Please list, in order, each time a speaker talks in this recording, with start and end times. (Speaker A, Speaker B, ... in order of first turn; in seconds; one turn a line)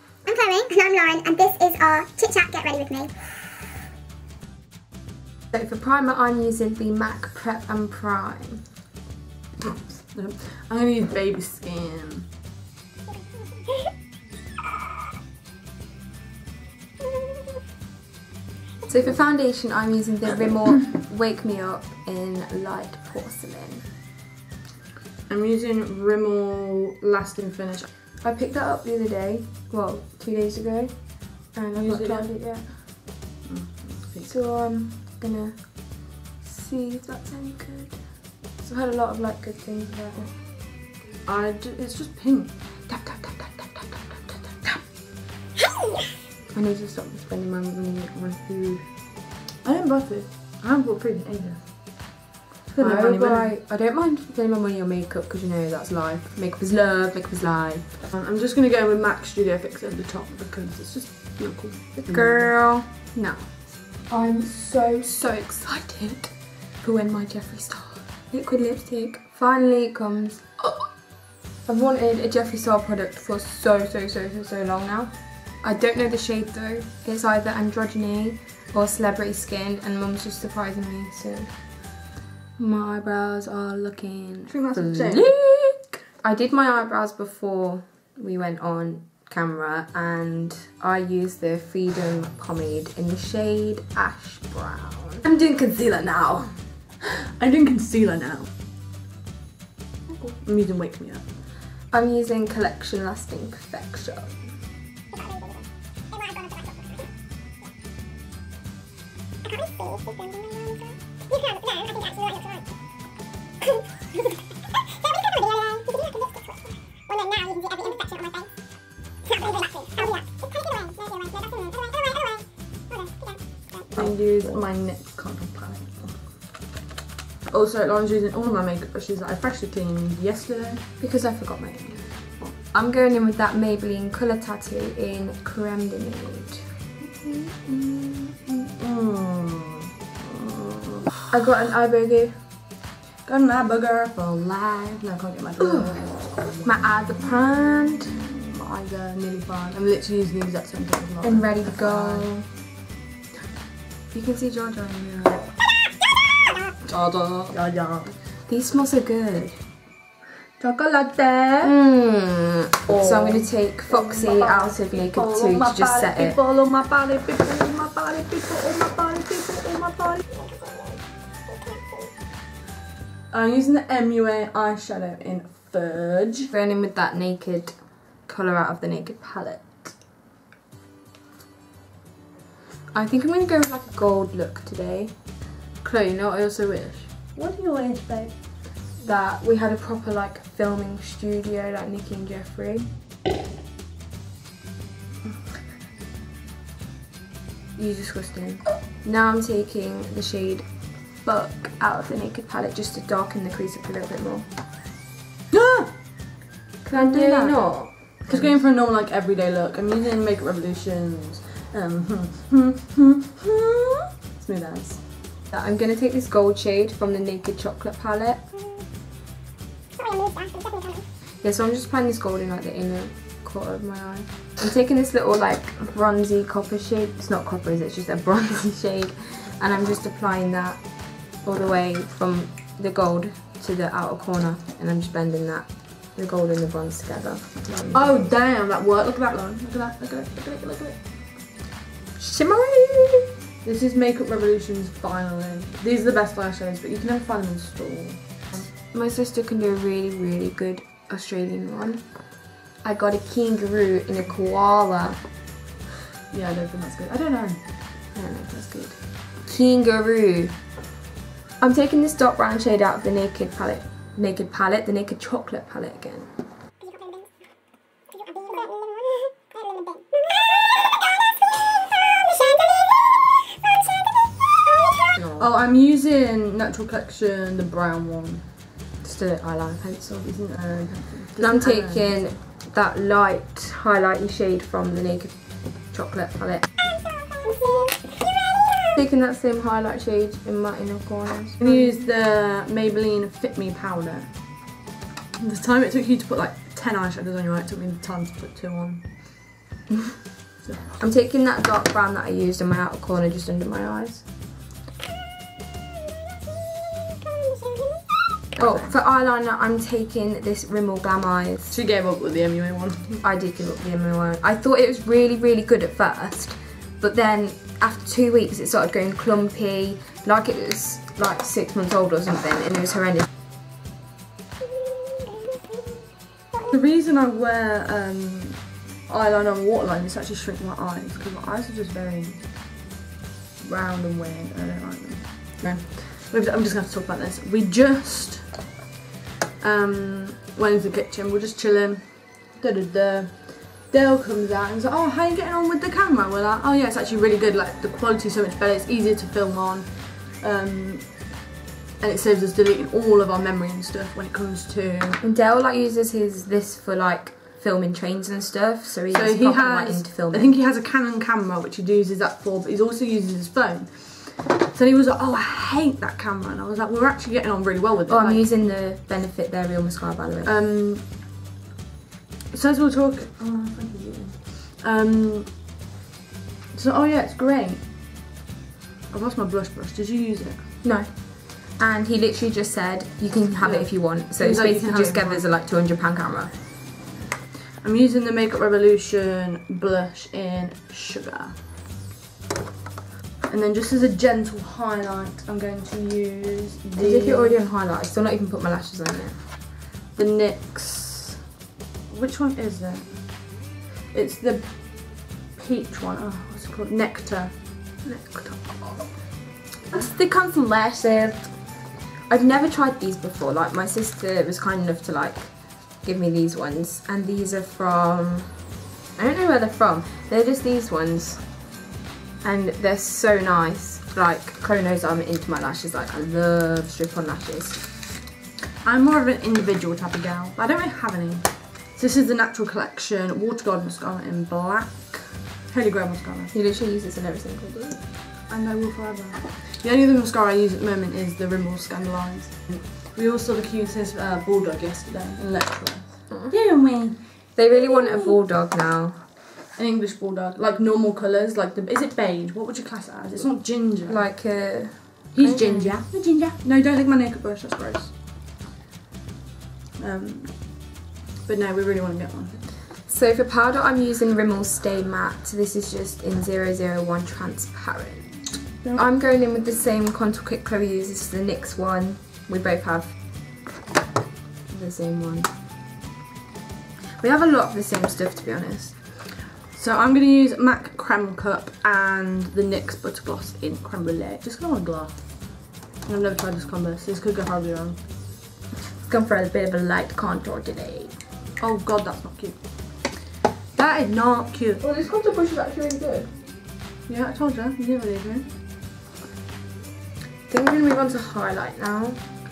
Speaker A: 0.3-3.1
Speaker B: 5.5-8.8
Speaker C: 9.6-12.3
Speaker B: 18.9-23.9
Speaker C: 25.3-27.9
Speaker B: 28.2-32.7
Speaker C: 31.7-32.4
Speaker C: 33.4-34.3
Speaker B: 34.2-40.4
Speaker C: 41.2-42.6
Speaker B: 42.9-44.9
Speaker B: 46.5-48.9
Speaker C: 49.6-52.1
Speaker B: 52.7-58.0
Speaker C: 52.8-53.5
Speaker C: 58.1-62.5
Speaker B: 62.0-71.1
Speaker B: 71.7-81.9
Speaker B: 82.6-96.7
Speaker C: 84.5-85.3
Speaker C: 97.4-98.5
Speaker C: 100.4-101.2
Speaker B: 101.9-104.5
Speaker A: 105.1-106.8
Speaker A: 109.5-112.6
Speaker A: 114.9-118.5
Speaker A: 119.3-123.7
Speaker C: 124.0-126.3
Speaker C: 127.5-130.8
Speaker B: 131.0-136.7
Speaker B: 137.3-138.2
Speaker C: 138.8-140.9
Speaker B: 141.3-142.5
Speaker C: 143.2-147.4
Speaker B: 146.6-148.2
Speaker C: 148.0-152.3
Speaker B: 151.2-152.5
Speaker B: 154.1-155.5
Speaker B: 156.9-157.5
Speaker C: 157.5-158.2
Speaker B: 158.5-159.6
Speaker C: 160.6-161.7
Speaker B: 161.6-166.4
Speaker C: 162.9-170.2
Speaker C: 173.3-176.5
Speaker B: 176.5-180.0
Speaker B: 182.9-185.2
Speaker B: 185.8-187.2
Speaker C: 187.3-188.3
Speaker B: 188.9-192.9
Speaker C: 197.8-198.6
Speaker B: 199.0-204.5
Speaker C: 205.5-206.1
Speaker B: 206.8-208.7
Speaker C: 206.9-215.0
Speaker B: 215.5-218.5
Speaker A: 220.0-221.0
Speaker B: 221.4-238.2
Speaker C: 237.9-241.1
Speaker B: 242.2-243.3
Speaker C: 243.6-248.7
Speaker B: 248.5-255.3
Speaker C: 256.3-257.7
Speaker B: 258.1-260.7
Speaker B: 261.6-266.3
Speaker A: 266.8-267.3
Speaker A: 268.1-275.1
Speaker B: 275.2-275.5
Speaker C: 275.4-278.5
Speaker B: 279.0-280.3
Speaker C: 280.2-282.2
Speaker B: 281.4-286.7
Speaker A: 287.4-288.1
Speaker B: 288.9-291.8
Speaker C: 291.6-294.7
Speaker C: 295.4-299.3
Speaker C: 300.6-300.9
Speaker B: 301.0-304.3
Speaker B: 308.6-311.8
Speaker C: 308.6-308.9
Speaker C: 311.7-313.2
Speaker B: 313.2-323.3
Speaker C: 326.7-332.5
Speaker C: 333.6-338.7
Speaker C: 339.6-351.4
Speaker C: 352.0-355.2
Speaker B: 355.2-360.6
Speaker C: 359.1-368.5
Speaker B: 368.1-370.5
Speaker C: 370.4-371.1
Speaker C: 372.5-375.6
Speaker C: 376.7-377.9
Speaker C: 379.1-380.7
Speaker B: 380.8-386.6
Speaker C: 383.6-385.4
Speaker C: 387.8-391.6
Speaker C: 393.5-397.6
Speaker B: 397.0-399.4
Speaker C: 400.1-401.4
Speaker C: 402.1-407.6
Speaker B: 408.0-409.3
Speaker B: 409.9-421.7
Speaker B: 422.4-427.9
Speaker C: 428.8-436.5
Speaker B: 436.5-438.1
Speaker C: 438.5-448.4
Speaker B: 446.3-446.6
Speaker B: 447.6-449.2
Speaker C: 449.7-454.3
Speaker B: 454.1-456.1
Speaker C: 455.3-458.1
Speaker C: 460.0-462.7
Speaker B: 463.1-473.4
Speaker B: 474.7-475.5
Speaker B: 477.2-479.1
Speaker C: 479.7-488.0
Speaker B: 489.1-491.2
Speaker C: 491.6-493.1
Speaker C: 493.7-494.8
Speaker B: 494.8-496.3
Speaker C: 497.1-498.5
Speaker B: 500.5-502.2